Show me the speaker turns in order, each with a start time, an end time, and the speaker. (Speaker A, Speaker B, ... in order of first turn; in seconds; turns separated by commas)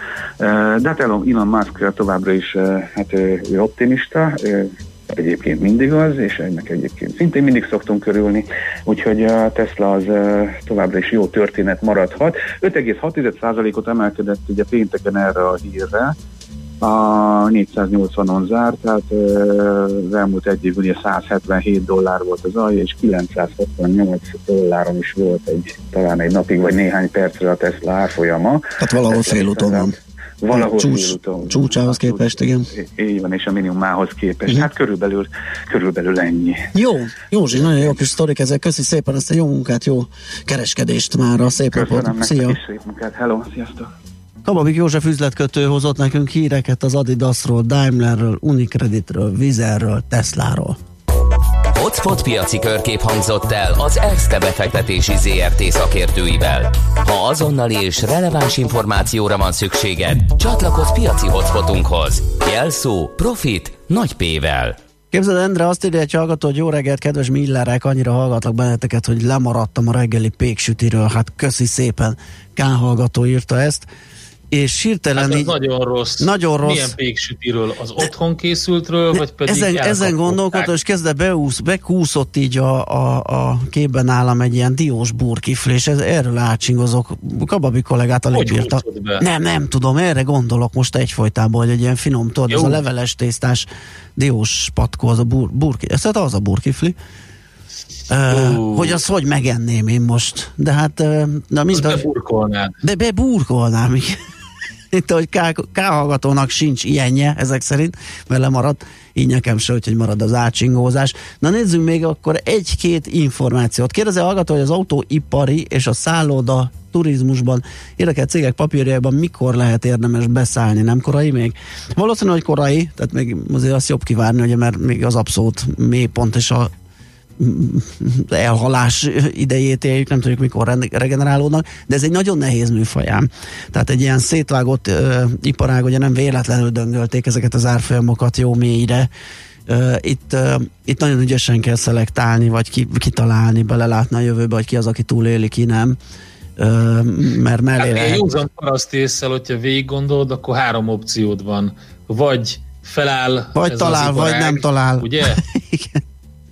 Speaker A: 0.4-16.1, Speaker A: 16.8-36.7, Speaker B: 28.8-29.9, Speaker B: 30.5-32.7, Speaker B: 36.7-42.6, Speaker A: 41.7-43.9, Speaker B: 44.4-50.8, Speaker C: 51.8-64.8, Speaker B: 65.1-73.9, Speaker B: 74.5-75.5, Speaker D: 75.2-80.7, Speaker B: 76.2-77.0, Speaker B: 79.1-97.0, Speaker D: 88.3-89.2, Speaker D: 92.5-92.8, Speaker B: 98.1-102.0, Speaker D: 98.3-99.0, Speaker D: 101.7-102.7, Speaker B: 102.8-104.2, Speaker B: 104.9-126.7, Speaker B: 127.4-139.1, Speaker B: 139.7-146.0, Speaker B: 146.6-148.2, Speaker D: 147.8-155.4, Speaker B: 153.6-156.0